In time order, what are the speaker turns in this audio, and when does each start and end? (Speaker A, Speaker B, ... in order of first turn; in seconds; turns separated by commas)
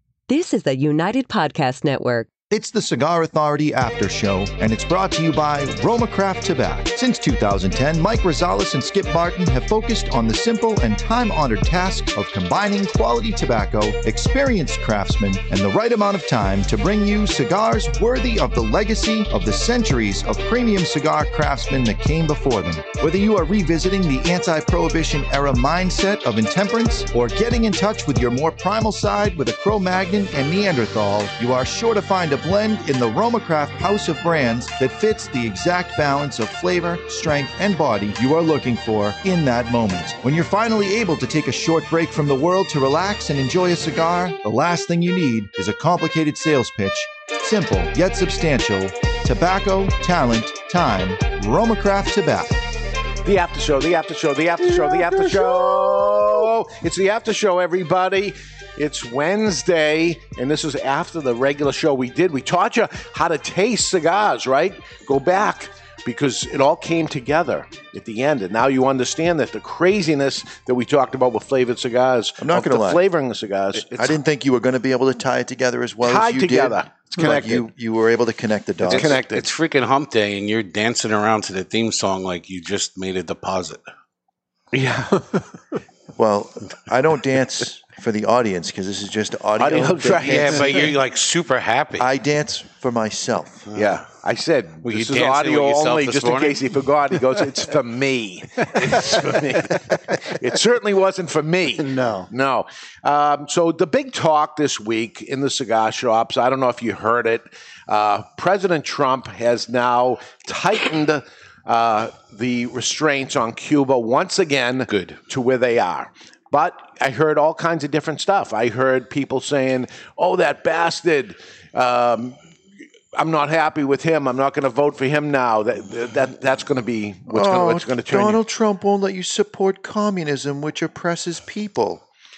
Speaker A: 0.3-2.3, Speaker B: 2.5-52.5, Speaker C: 53.2-74.2, Speaker B: 72.4-73.0, Speaker B: 73.7-79.2, Speaker C: 76.0-77.7, Speaker D: 78.8-83.8, Speaker C: 78.8-79.5, Speaker C: 84.7-85.4, Speaker B: 86.2-90.9, Speaker C: 89.6-91.0, Speaker D: 90.2-92.1, Speaker B: 92.0-93.7, Speaker D: 93.7-94.0, Speaker C: 93.7-122.4, Speaker D: 94.8-96.7, Speaker D: 114.9-115.2, Speaker C: 123.1-128.4, Speaker B: 127.3-132.0